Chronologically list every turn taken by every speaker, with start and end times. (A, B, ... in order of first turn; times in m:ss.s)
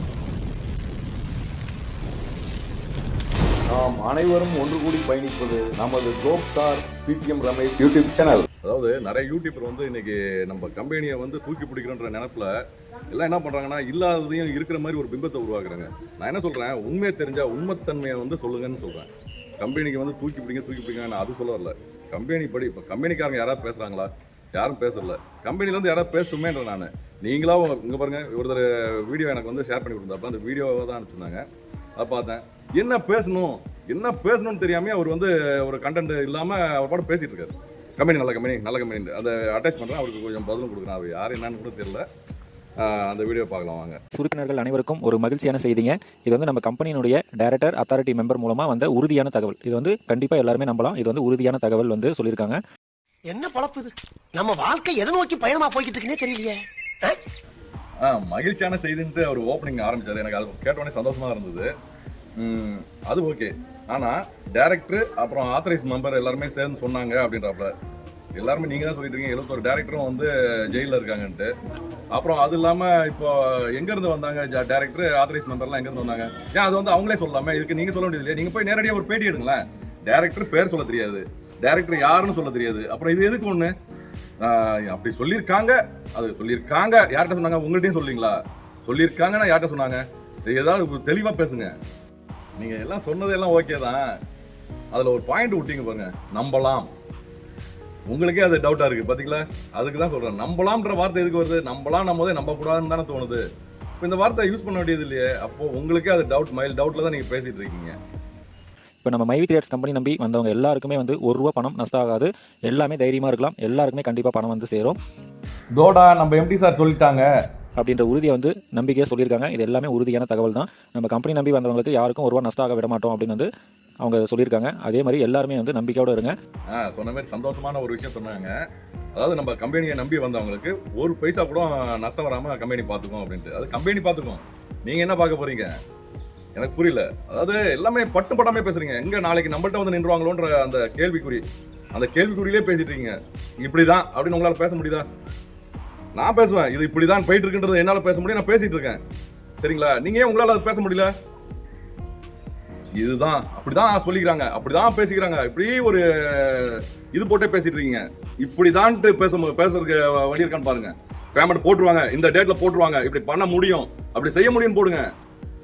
0:03.7-0:12.6 A
0:13.1-0:19.1 A
0:19.6-0:31.4 A
0:32.0-0:42.0 A
0:42.8-0:44.0 A
0:44.1-0:52.6 B
0:53.3-0:57.2 C
0:58.0-1:01.7 A
1:02.4-1:07.7 A
1:08.4-1:11.5 A
1:12.1-1:23.7 A
1:24.4-1:31.8 A
1:32.6-1:34.0 A
1:34.9-1:36.9 A
1:38.1-1:43.4 A
1:44.0-1:48.0 A
1:49.0-1:55.0 B
1:55.8-1:57.3 A
1:57.8-2:03.5 B
2:04.0-2:06.3 B
2:06.7-2:08.6 A
2:09.2-2:15.8 A
2:16.6-2:25.1 A
2:26.2-2:29.0 A
2:29.6-2:31.1 A
2:33.0-2:45.1 A